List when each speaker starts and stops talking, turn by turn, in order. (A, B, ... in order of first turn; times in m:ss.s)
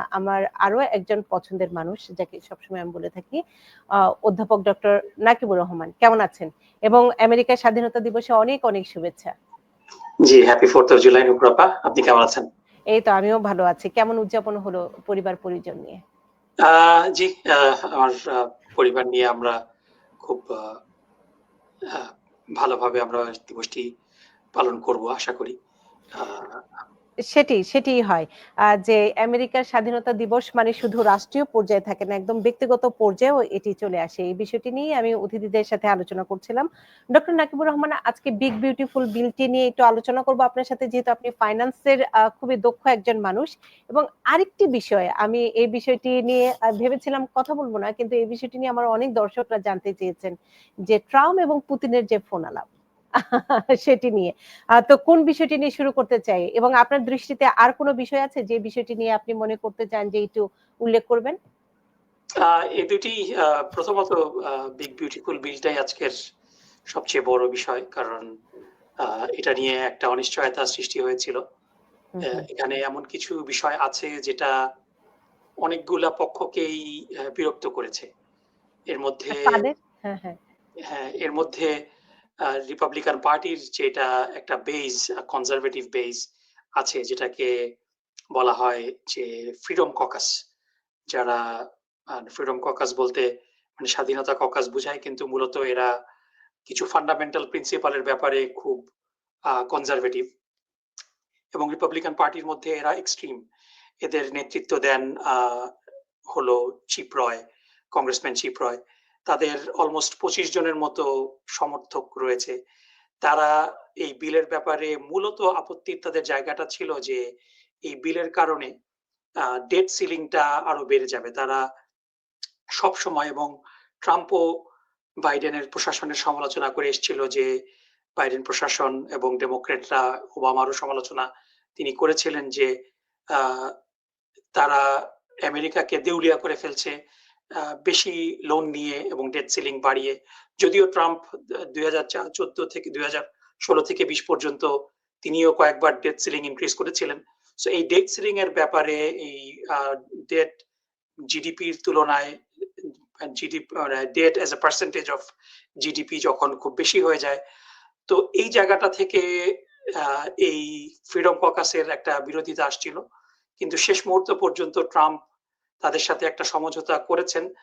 0:00.2-0:03.4 A
0:04.2-0:09.3 A
0:10.2-0:12.4 B
0:12.9-0:16.0 A
0:16.6-0:19.6 B
0:20.2-0:20.8 B
0:21.9-0:23.8 B
0:24.6-0:25.6 B
0:26.2-0:26.6 B
0:27.3-0:50.3 A
0:50.9-0:52.7 A
0:53.2-1:01.4 A
1:02.4-1:06.1 B
1:06.9-1:08.2 B
1:09.0-1:11.4 B
1:12.2-1:12.4 A
1:12.2-1:14.5 B
1:15.6-1:18.1 B
1:18.9-1:19.6 B
1:19.3-1:20.4 A
1:20.8-1:21.7 B
1:22.5-1:26.2 B
1:26.8-1:27.5 B
1:28.4-1:30.3 B
1:31.1-1:31.4 B
1:32.1-1:35.9 B
1:36.7-1:38.8 B
1:39.5-1:40.2 B
1:41.5-1:43.4 B
1:44.0-1:45.7 B
1:46.3-1:47.4 B
1:47.9-1:51.0 B
1:51.6-1:52.6 B
1:53.2-1:57.2 B
1:57.9-1:58.7 B
1:59.4-2:01.6 B
2:02.8-2:03.5 B
2:04.0-2:04.4 B
2:05.2-2:07.5 B
2:08.2-2:12.7 B
2:13.3-2:13.7 B
2:14.5-2:14.9 B
2:15.4-2:17.0 B
2:17.6-2:24.7 B
2:25.2-2:30.6 B
2:31.3-2:35.3 B
2:35.8-2:37.4 B
2:38.1-2:39.2 B
2:40.0-2:43.0 B
2:43.6-2:45.2 B
2:45.8-2:47.4 B